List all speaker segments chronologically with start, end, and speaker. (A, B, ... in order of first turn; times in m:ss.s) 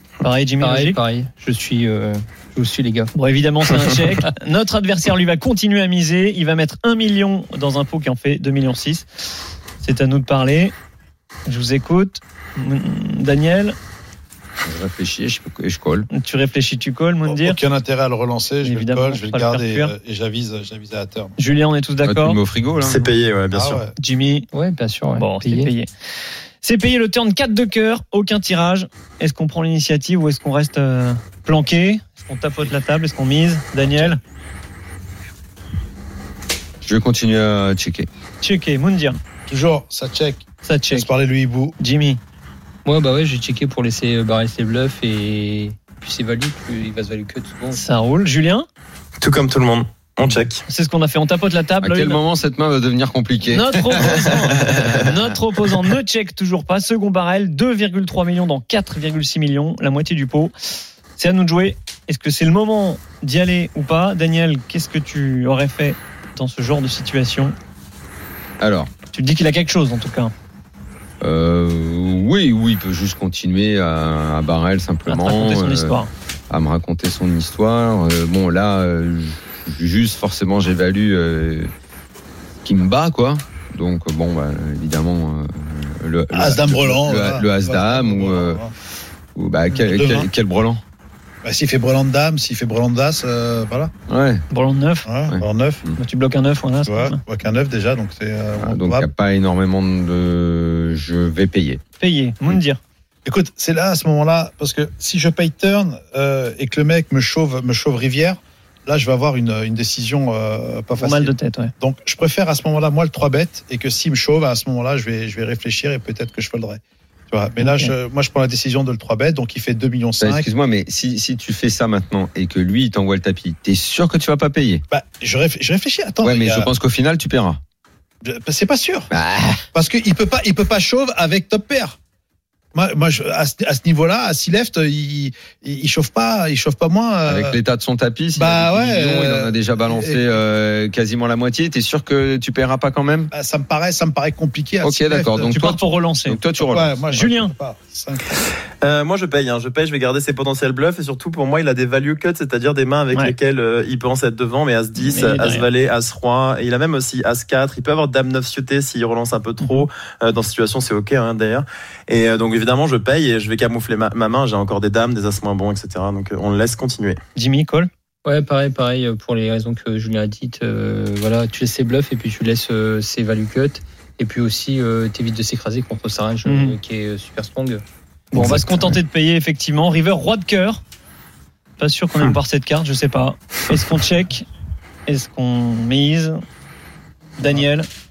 0:00.2-0:01.0 A
0:00.6-0:03.1 B
0:03.2-0:09.1 A
0:09.8-0:10.7 A
0:11.5-0:13.8 A
0:14.6-0:16.1 C
0:16.1-0:17.6 A
0:17.3-0:21.4 D
0:18.6-0:19.9 A
0:21.4-0:22.4 A
0:22.0-0:23.0 C
0:22.8-0:23.8 E
0:23.5-0:23.9 D
0:24.0-0:24.5 A
0:24.5-0:25.7 B
0:25.2-0:25.9 A
0:26.6-0:34.2 A
0:36.8-0:38.1 C
0:38.4-0:39.2 A
0:39.5-0:41.8 D
0:40.6-0:41.1 A
0:41.8-0:42.2 A
0:42.8-0:47.8 B
0:47.7-0:48.7 A
0:49.2-0:50.6 E
0:50.7-0:52.2 A
0:51.8-0:55.0 C
0:53.5-1:00.5 A
1:01.2-1:07.6 A
1:08.6-1:08.9 C
1:09.1-1:10.3 A
1:11.2-1:16.0 C
1:15.1-1:16.1 A
1:16.5-1:21.7 C
1:22.6-1:28.6 C
1:26.3-1:28.7 D
1:29.4-1:30.8 C
1:29.7-1:30.3 D
1:31.4-1:33.9 D
1:34.1-1:34.4 C
1:34.5-1:35.1 A
1:35.1-1:35.8 D
1:35.3-1:36.0 C
1:36.0-1:37.2 A
1:36.8-1:39.1 D
1:38.6-1:41.8 C
1:42.0-1:42.8 A
1:43.2-2:00.5 D
1:51.0-1:51.7 A
1:57.6-1:57.9 A
2:00.2-2:04.8 C
2:04.9-2:06.7 D
2:06.2-2:07.6 C
2:08.2-2:09.1 D
2:09.1-2:09.6 C
2:09.7-2:12.0 D
2:12.7-2:17.6 D
2:17.3-2:23.3 C
2:18.4-2:20.4 D
2:23.3-2:25.6 D
2:24.8-2:27.1 C
2:25.5-2:26.4 A
2:26.6-2:28.4 D
2:27.1-2:27.5 A
2:28.8-2:47.2 E
2:35.0-2:35.7 A
2:47.4-2:47.9 A
2:48.2-2:57.8 B
2:56.4-2:56.8 A
2:58.3-3:00.8 A
2:58.4-2:58.6 E
3:01.8-3:04.5 A
3:05.1-3:06.4 A
3:07.4-3:07.9 A